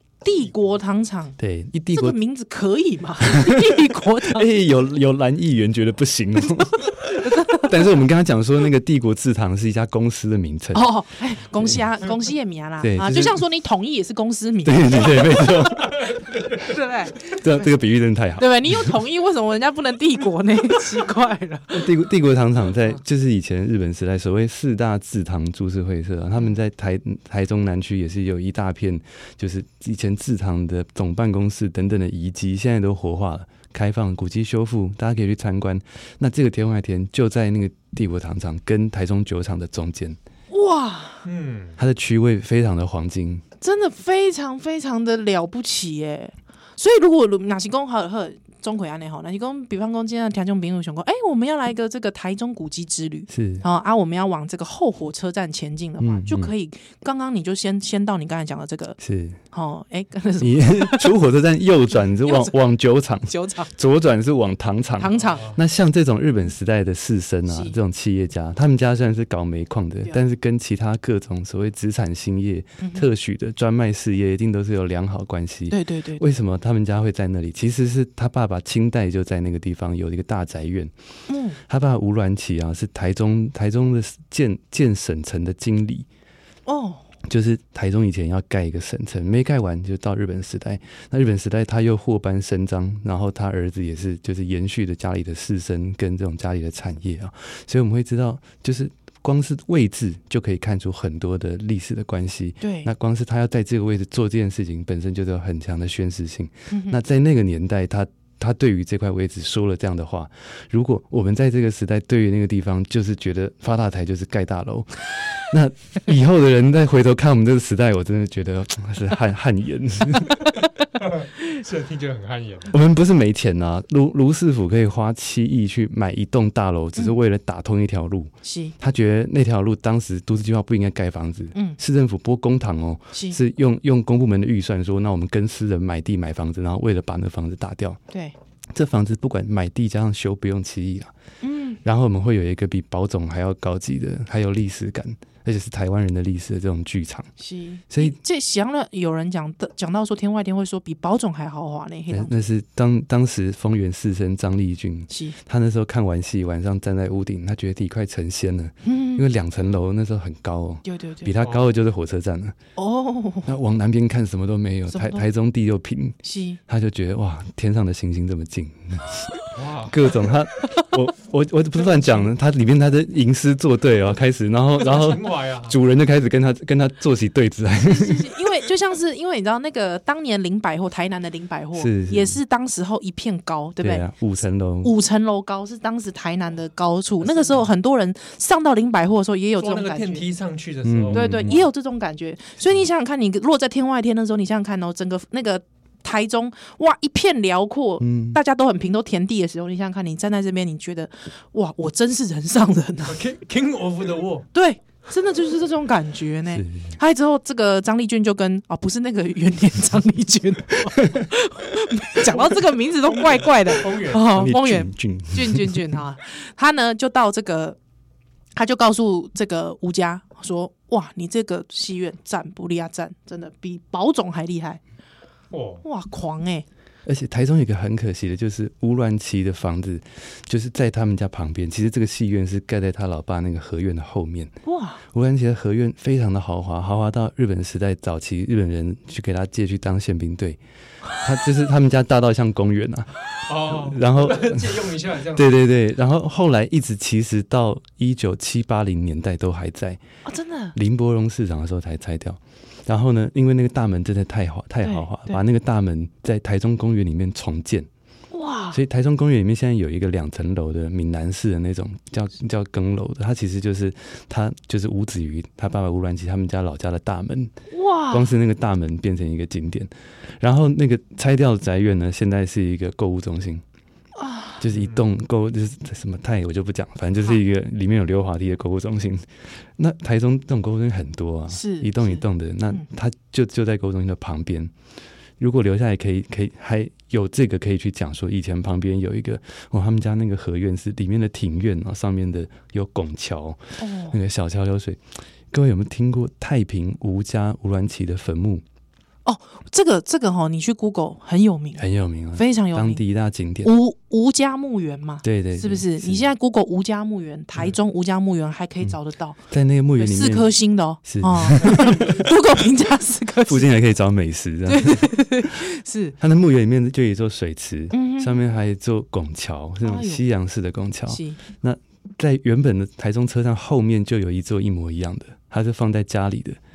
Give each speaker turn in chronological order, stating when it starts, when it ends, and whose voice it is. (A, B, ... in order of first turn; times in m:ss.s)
0:00.2-0:01.4 A
0:01.4-0:02.2 B
0:01.9-0:04.5 A
0:03.2-0:10.8 B
0:07.2-0:07.8 A
0:10.7-0:15.9 A
0:12.8-0:13.4 B
0:14.6-0:16.5 B
0:16.5-0:17.7 A
0:17.2-0:19.0 B
0:18.4-0:21.9 A
0:21.7-0:40.2 B
0:40.5-0:41.2 A
0:41.2-0:41.8 C
0:41.8-0:43.4 B
0:43.6-0:59.0 A
0:53.3-0:53.6 B
0:56.0-0:56.5 B
0:59.0-0:59.4 B
0:59.5-1:01.2 A
1:00.4-1:20.9 B
1:02.0-1:02.6 A
1:03.3-1:03.7 A
1:05.0-1:05.5 A
1:05.1-1:05.6 C
1:07.5-1:07.8 A
1:12.8-1:13.0 A
1:15.7-1:16.2 A
1:21.3-1:21.6 A
1:21.6-1:26.1 B
1:26.6-1:27.0 A
1:27.2-2:00.6 B
1:42.6-1:42.9 A
1:46.7-1:47.0 A
2:01.0-2:02.7 C
2:02.7-2:18.0 B
2:08.4-2:08.7 A
2:11.5-2:11.8 A
2:13.1-2:13.4 A
2:18.7-2:21.1 B
2:21.4-2:21.8 A
2:21.8-2:27.3 B
2:27.4-2:32.3 A
2:27.9-2:28.2 B
2:32.1-2:42.6 B
2:35.1-2:35.4 A
2:38.8-2:39.2 A
2:40.8-2:41.3 A
2:42.8-2:43.5 A
2:43.4-2:58.4 B
2:44.9-2:45.2 A
2:46.2-2:46.6 A
2:49.5-2:50.1 C
2:50.7-2:50.9 A
2:54.8-2:55.8 C
2:57.8-3:04.0 A
3:01.7-3:02.4 B
3:03.8-3:04.9 B
3:04.8-3:10.2 A
3:07.2-3:07.6 C
3:09.6-3:11.2 C
3:10.8-3:11.6 B
3:11.1-3:23.2 A
3:18.0-3:18.4 B
3:23.0-3:24.5 C
3:24.5-3:37.8 A
3:26.5-3:27.0 B
3:31.0-3:31.2 B
3:33.0-3:34.5 C
3:34.3-3:36.0 B
3:38.6-3:44.8 A
3:45.5-3:45.8 C
3:45.8-3:46.6 A
3:47.0-3:54.5 B
3:54.6-3:55.0 A
3:55.1-4:00.6 B
4:01.2-4:10.0 B
4:03.5-4:05.5 C
4:10.2-4:10.7 A
4:10.7-4:17.9 B
4:14.8-4:15.4 A
4:18.3-4:18.8 A
4:18.7-4:27.5 B
4:27.7-4:28.3 A
4:28.1-4:33.6 B
4:34.2-4:34.6 A
4:34.6-4:44.7 B
4:34.8-4:35.0 C
4:41.5-4:42.8 A
4:45.4-4:58.6 B
4:53.8-4:54.2 A
4:59.2-5:03.0 A
5:01.8-5:03.7 B
5:03.6-5:09.4 A
5:05.2-5:06.2 B
5:09.5-5:12.3 B
5:10.0-5:13.8 A
5:13.4-5:15.5 B
5:14.6-5:16.2 A
5:16.2-5:26.6 B
5:17.9-5:18.4 A
5:19.8-5:20.2 A
5:21.1-5:21.4 A